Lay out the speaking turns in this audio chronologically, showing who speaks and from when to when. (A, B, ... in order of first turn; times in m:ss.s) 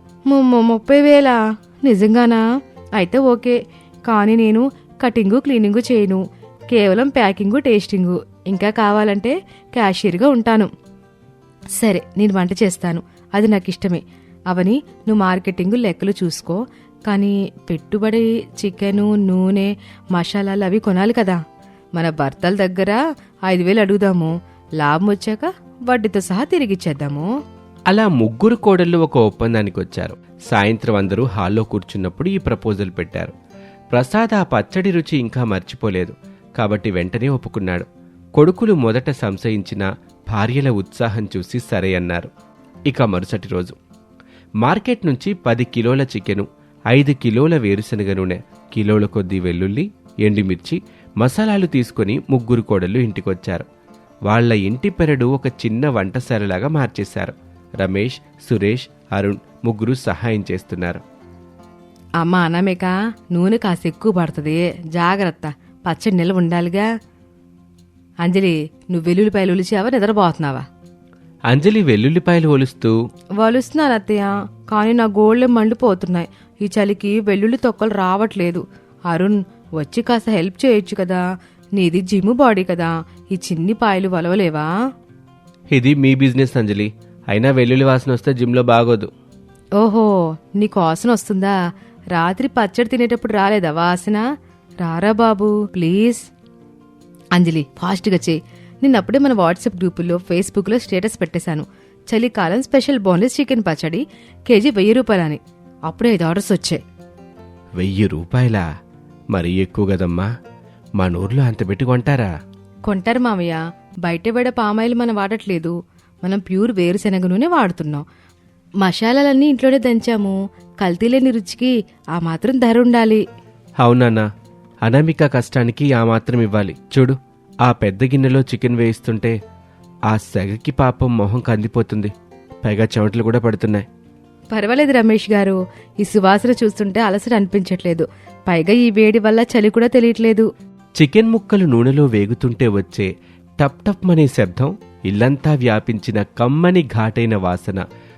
0:00.3-0:02.4 A
0:03.0-0:10.7 A
0:11.8-0:21.4 A
0:22.0-0:27.3 A
0:27.9-0:33.3 B
0:33.9-0:42.3 B
0:42.9-0:43.8 B
0:44.6-0:53.7 B
0:54.3-1:01.0 B
1:02.2-1:06.9 A
1:08.2-1:10.7 A
1:11.5-1:13.0 B
1:13.4-1:21.2 A
1:21.8-1:24.7 A
1:25.7-1:29.1 B
1:29.8-1:31.6 A
1:32.1-1:34.2 A
1:34.8-1:36.3 A
1:37.4-1:46.8 A
1:47.8-1:48.6 B
1:49.3-1:50.3 B
1:51.0-1:52.3 B
1:52.9-1:58.0 A
1:58.8-2:03.2 A
2:03.8-2:04.3 B
2:04.8-2:09.4 B
2:10.1-2:12.1 B
2:12.6-2:13.8 B
2:14.5-2:20.5 A
2:21.0-2:27.8 B